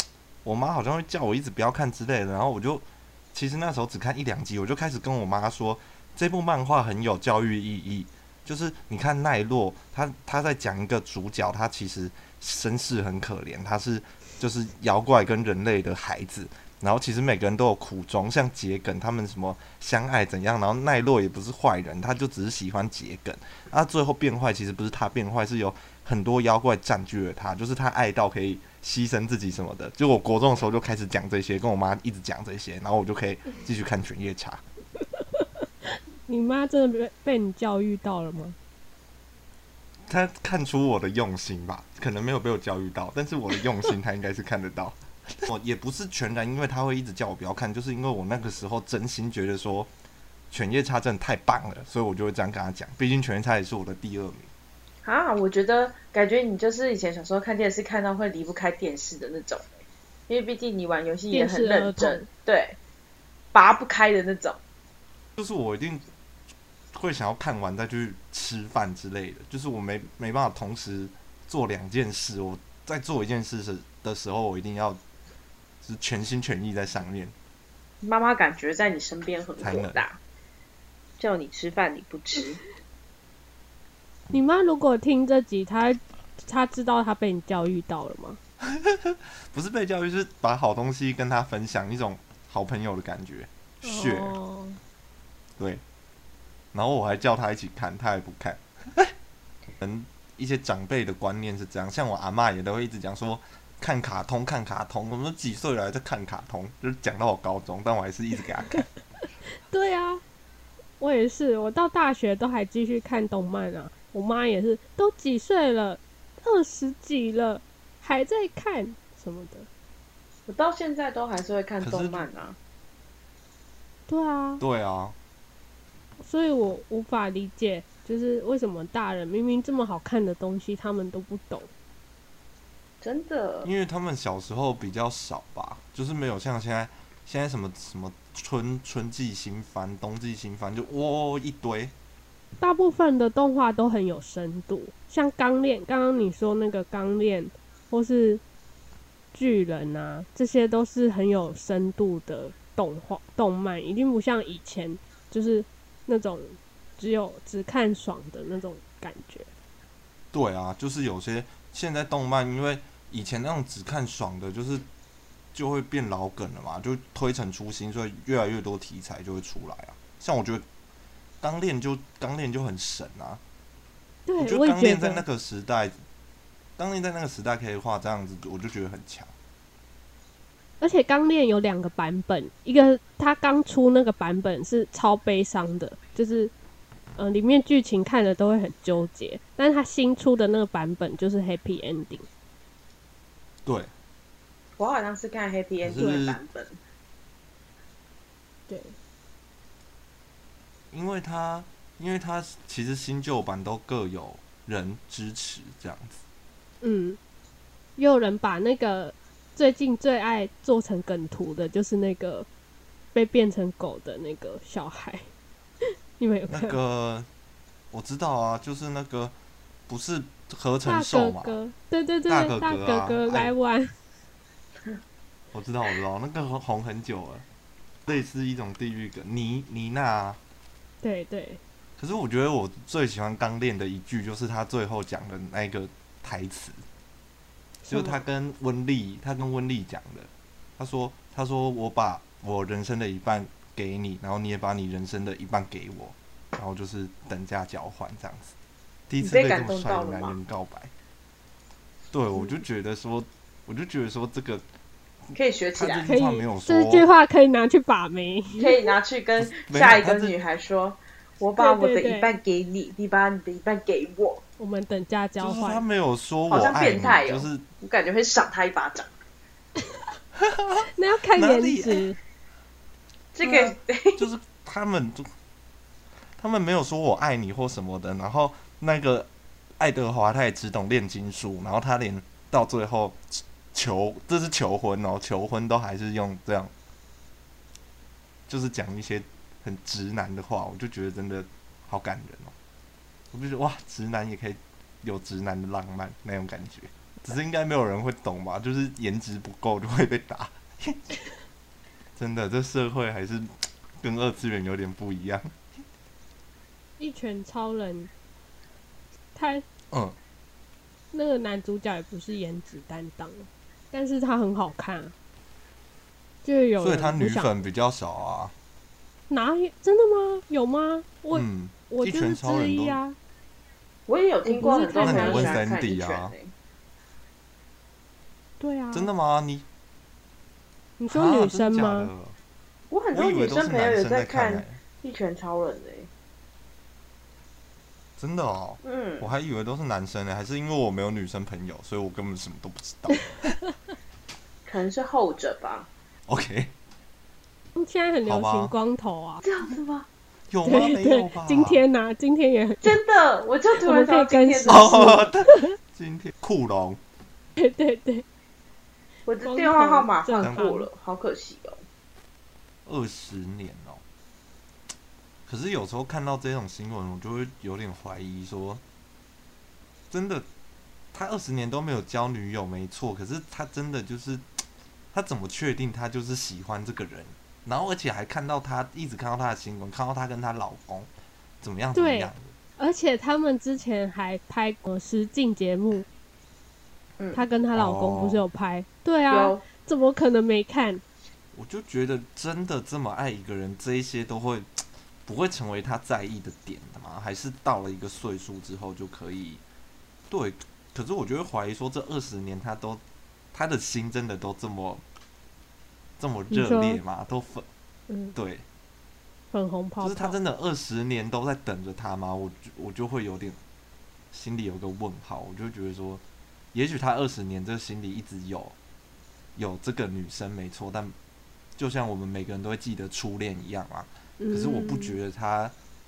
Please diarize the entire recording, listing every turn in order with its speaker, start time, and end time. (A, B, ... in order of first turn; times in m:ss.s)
0:00.4-0:34.6 A
0:35.4-0:38.6 B
0:40.1-0:49.9 A
0:50.5-0:54.5 A
0:55.0-1:02.8 C
1:01.3-1:02.3 B
1:03.5-1:04.6 C
1:05.4-1:06.1 A
1:07.0-1:15.0 A
1:15.8-1:17.3 A
1:18.0-1:20.2 C
1:19.6-1:20.0 A
1:21.2-1:22.6 C
1:24.3-1:28.4 B
1:28.7-1:34.4 A
1:33.8-1:34.8 B
1:36.7-1:39.1 A
1:39.8-1:48.9 A
1:49.7-1:50.2 B
1:51.0-1:59.7 B
2:00.5-2:02.6 C
2:01.8-2:02.2 A
2:04.1-2:04.6 B
2:04.6-2:05.2 A
2:06.2-2:11.7 B
2:13.0-2:13.7 C
2:13.6-2:21.9 A
2:22.6-2:28.4 B
2:29.3-2:39.5 B
2:40.3-2:44.9 A
2:45.5-2:50.6 A
2:51.4-2:53.4 A
2:54.3-2:55.2 B
2:54.4-2:56.0 A
2:56.8-2:59.3 A
3:00.8-3:06.5 B
3:07.2-3:12.3 B
3:13.6-3:13.9 A
3:14.8-3:16.8 C
3:15.8-3:16.4 A
3:18.7-3:19.0 B
3:20.9-3:26.2 A
3:26.8-3:27.2 B
3:28.0-3:32.5 B
3:33.1-3:35.3 B
3:36.2-3:36.8 B
3:36.5-3:37.3 A
3:37.9-3:39.3 A
3:39.9-3:41.6 A
3:40.8-3:43.9 B
3:42.3-3:43.5 A
3:45.5-3:47.4 A
3:48.1-3:50.4 A
3:51.0-3:51.6 B
3:52.0-3:56.8 A
3:57.8-3:58.2 B
3:57.9-4:08.5 A
4:09.1-4:10.9 A
4:09.2-4:10.4 C
4:12.1-4:14.6 A
4:15.4-4:16.1 C
4:15.8-4:17.1 A
4:16.1-4:18.9 B
4:18.6-4:24.4 C
4:19.4-4:20.4 A
4:21.6-4:22.3 B
4:24.6-4:25.8 B
4:25.4-4:27.6 A
4:26.5-4:29.1 C
4:30.4-4:32.1 A
4:30.8-4:32.2 B
4:33.3-4:34.3 C
4:33.4-4:33.7 B
4:34.2-4:35.3 A
4:36.4-4:39.3 A
4:39.8-4:46.7 A
4:48.5-4:52.5 A
4:53.3-5:01.2 A
5:02.2-5:03.5 A
5:04.0-5:05.5 A
5:07.0-5:08.1 B
5:09.4-5:09.6 B
5:09.9-5:10.2 A
5:11.1-5:15.1 B
5:16.4-5:17.5 B
5:16.8-5:18.5 A
5:19.3-5:23.2 B
5:21.3-5:23.0 A
5:24.1-5:26.5 C
5:24.4-5:25.6 B
5:25.0-5:26.3 A
5:28.6-5:29.1 B
5:28.9-5:29.7 A
5:31.0-5:32.1 B
5:31.1-5:32.4 A
5:32.9-5:36.1 C
5:33.1-5:34.8 A
5:38.2-5:43.5 A
5:38.8-5:39.3 C
5:44.7-5:45.9 C
5:46.3-5:46.7 A
5:47.8-5:49.4 B
5:48.3-5:48.7 A
5:49.4-5:50.1 C
5:50.5-5:51.8 A
5:50.6-5:53.0 B
5:52.8-5:55.3 C
5:53.7-5:55.8 B
5:54.7-5:57.0 A
5:57.6-5:58.2 B
5:59.3-6:01.8 C
5:59.4-6:00.9 B
6:00.4-6:00.7 A
6:02.9-6:04.0 A
6:05.5-6:08.8 A
6:10.1-6:10.5 A
6:11.1-6:14.5 A
6:15.1-6:21.1 A
6:21.6-6:22.5 A
6:21.9-6:26.1 B
6:27.3-6:31.0 B
6:27.7-6:28.4 A
6:29.3-6:29.6 C
6:31.5-6:39.6 A
6:40.3-6:43.0 A
6:43.5-6:45.0 A
6:46.2-6:47.7 A
6:46.5-6:47.0 B
6:48.1-6:48.4 B
6:48.4-6:48.6 A
6:49.5-6:50.4 B
6:50.0-6:53.6 A
6:54.3-6:56.2 A
6:56.7-6:58.8 A
6:59.6-7:01.2 A
7:01.8-7:05.7 A
7:04.4-7:05.2 B